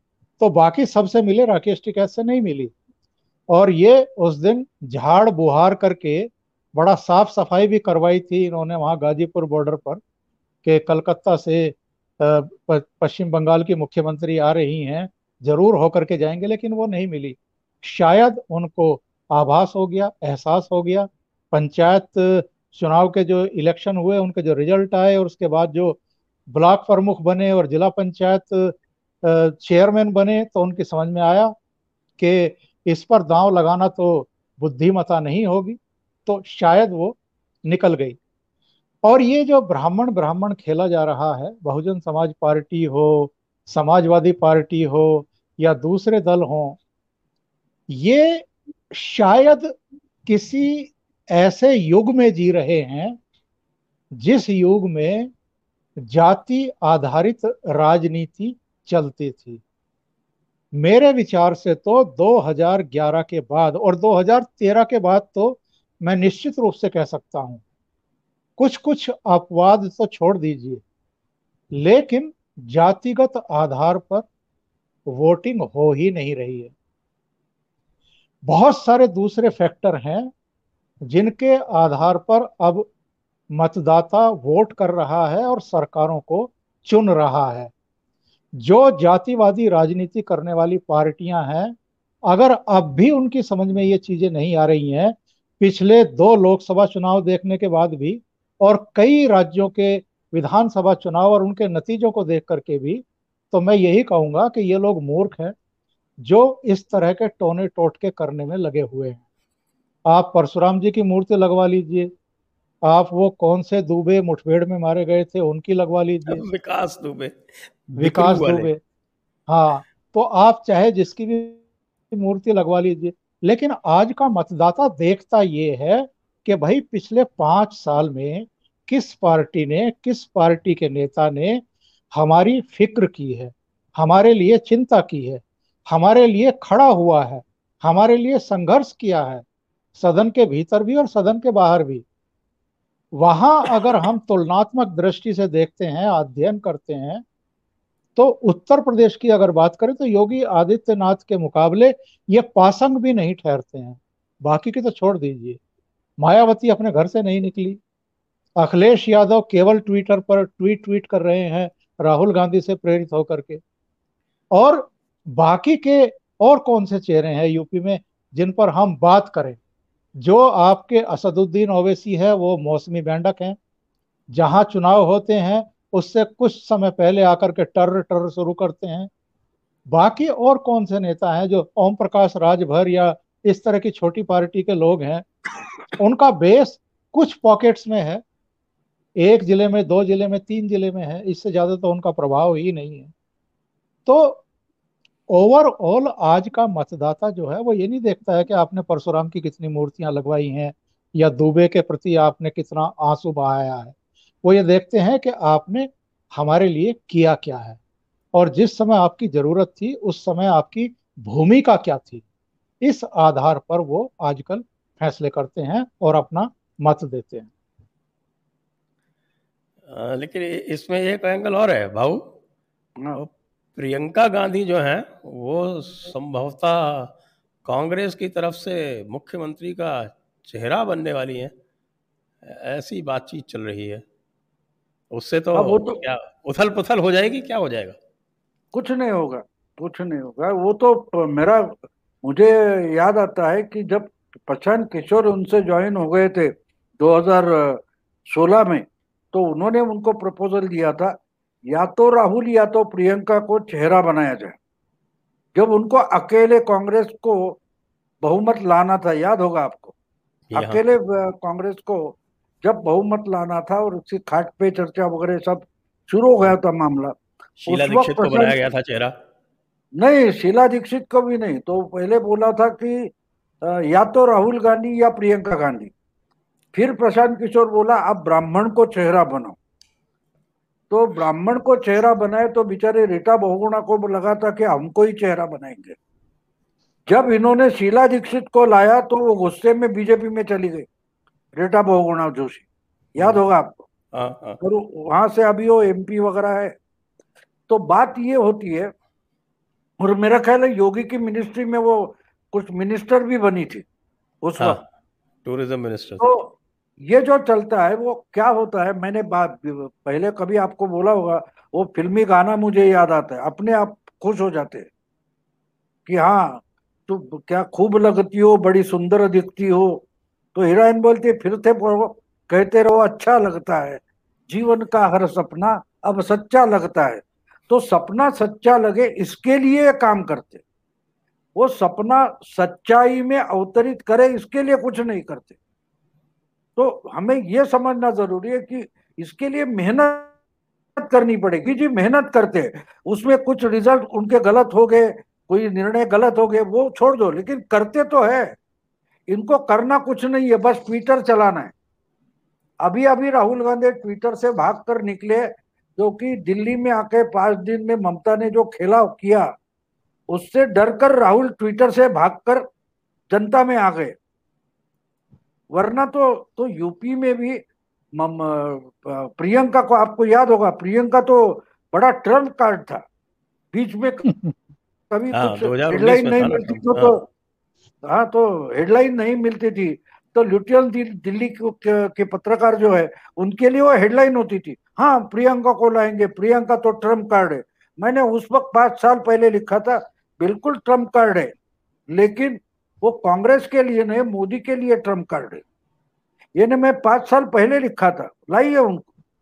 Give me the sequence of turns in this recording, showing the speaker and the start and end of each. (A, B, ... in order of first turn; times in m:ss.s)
0:00.4-0:02.7 A
0:03.5-0:10.0 A
0:10.6-0:26.0 A
0:26.5-0:31.5 A
0:32.2-0:38.2 A
0:39.0-0:46.8 A
0:47.9-0:49.7 A
0:50.3-0:53.2 A
0:54.2-0:55.3 A
0:56.0-0:59.6 A
1:00.8-1:07.6 A
1:08.6-1:10.8 A
1:11.7-1:14.3 A
1:15.1-1:16.7 A
1:18.5-1:20.3 A
1:21.1-1:22.9 A
1:23.6-1:27.7 A
1:28.6-1:31.7 A
1:32.3-1:45.5 A
1:46.2-1:49.2 A
1:50.1-1:52.1 A
1:52.9-1:56.5 A
1:56.3-1:58.7 B
1:58.0-1:58.8 A
1:59.5-2:01.6 A
2:02.1-2:11.6 A
2:12.2-2:19.4 A
2:20.0-2:22.0 A
2:23.2-2:27.2 A
2:28.2-2:35.6 A
2:36.2-2:37.8 A
2:38.6-2:43.6 A
2:44.5-2:49.6 A
2:50.2-2:53.6 A
2:54.3-2:59.1 A
2:59.9-3:05.2 A
3:06.0-3:08.2 A
3:09.2-3:13.1 A
3:14.1-3:14.4 A
3:15.3-3:27.8 A
3:28.3-3:32.2 A
3:32.8-3:37.5 A
3:39.9-3:42.3 B
3:43.2-3:47.1 B
3:47.6-3:51.5 B
3:52.4-3:54.0 B
3:55.1-3:58.0 B
3:55.6-3:56.0 C
3:58.7-4:11.2 C
4:11.7-4:14.6 C
4:15.6-4:17.6 C
4:18.2-4:19.9 C
4:20.5-4:20.8 B
4:20.5-4:27.2 C
4:27.6-4:29.1 B
4:27.7-4:28.6 C
4:30.0-4:33.1 C
4:33.6-4:35.9 C
4:36.7-4:39.6 C
4:40.9-4:46.0 C
4:47.1-4:50.9 C
4:51.6-4:52.7 C
4:53.2-4:53.8 C
4:54.1-4:54.6 B
4:54.6-4:56.8 C
4:57.7-4:58.9 C
5:00.0-5:03.8 C
5:04.4-5:04.8 C
5:05.4-5:06.2 B
5:06.2-5:06.6 C
5:07.1-5:14.9 C
5:16.1-5:30.6 C
5:31.6-5:35.5 C
5:36.8-5:40.3 C
5:41.0-5:48.6 C
5:49.3-5:51.7 C
5:52.8-5:59.5 C
6:00.3-6:02.6 C
6:03.3-6:04.1 C
6:05.7-6:07.6 C
6:08.2-6:13.0 C
6:13.7-6:14.3 C
6:14.3-6:14.6 A
6:15.1-6:17.2 C
6:15.3-6:17.2 B
6:18.1-6:31.5 C
6:32.1-6:35.6 C
6:36.6-6:39.1 C